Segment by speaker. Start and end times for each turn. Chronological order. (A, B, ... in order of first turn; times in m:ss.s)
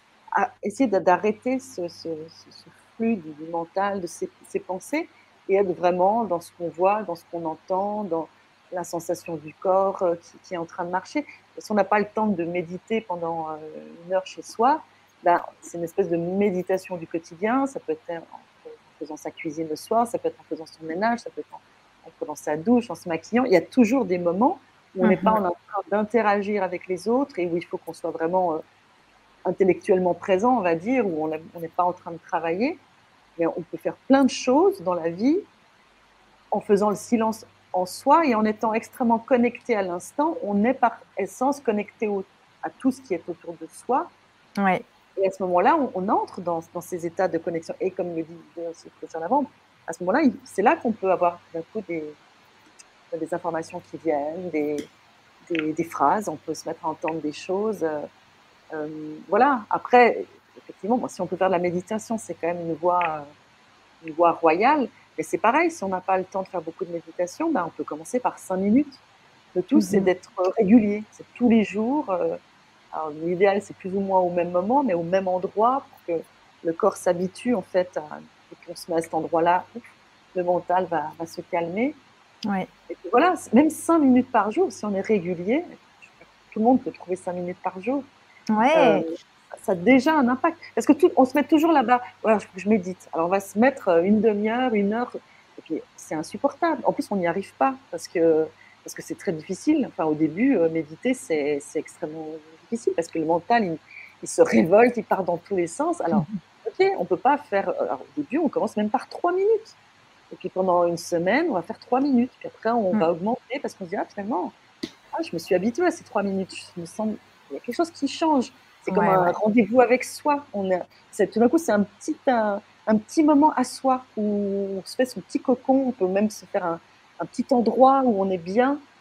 0:00.3-0:28.6 A
0:25.0-0:25.4 B
0:29.4-0:32.8 A
0:33.4-0:35.5 A
0:36.5-0:44.1 A
0:44.6-0:44.8 B
0:45.2-0:52.2 A
0:53.1-0:54.9 A
0:55.4-0:58.1 A
0:58.7-1:03.3 A
1:04.0-1:09.0 A
1:09.6-1:12.4 A
1:09.8-1:10.1 B
1:12.9-1:19.8 A
1:20.3-1:22.0 A
1:22.9-1:28.1 A
1:28.5-1:29.1 B
1:28.7-1:49.8 A
1:50.3-1:54.5 A
1:55.1-2:08.8 A
1:58.9-1:59.4 B